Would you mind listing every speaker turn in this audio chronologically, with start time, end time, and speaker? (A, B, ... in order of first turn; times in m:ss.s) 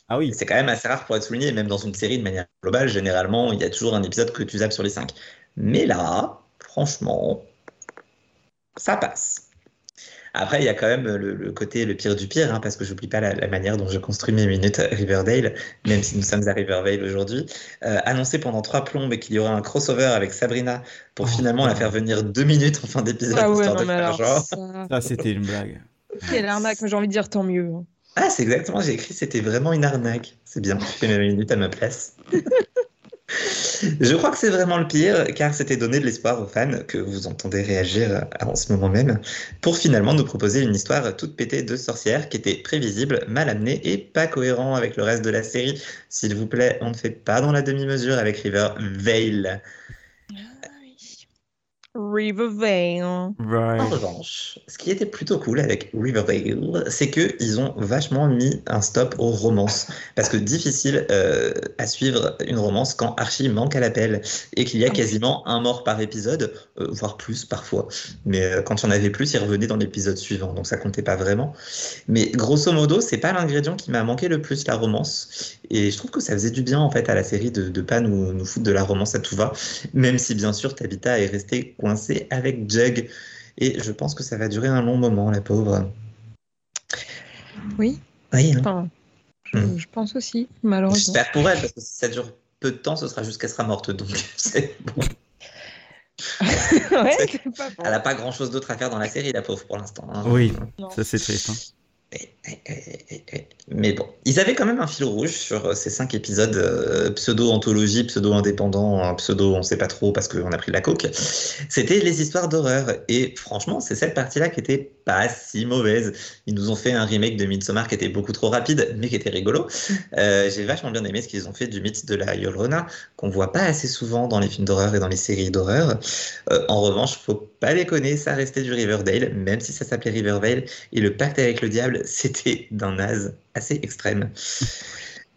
0:00.1-0:00.4 A
0:00.3-0:07.5 B
0:08.8-0:09.5 B
0:10.4-0:24.6 B
0:21.2-0:21.9 A
0:23.3-0:24.9 C
0:24.9-0:26.4 A
0:26.3-0:27.9 C
0:28.2-0:32.2 B
0:33.3-0:49.6 B
0:50.3-0:51.2 C
0:52.0-0:53.4 C
0:53.4-0:54.0 A
0:53.8-1:11.6 B
1:12.1-1:25.9 B
1:27.8-1:28.0 C
1:28.3-1:28.7 B
1:28.6-1:28.9 C
1:29.5-1:31.2 C
1:30.9-1:35.1 B
1:36.4-1:38.0 C
1:36.6-1:40.7 B
1:40.2-1:41.6 A
1:42.1-2:14.3 B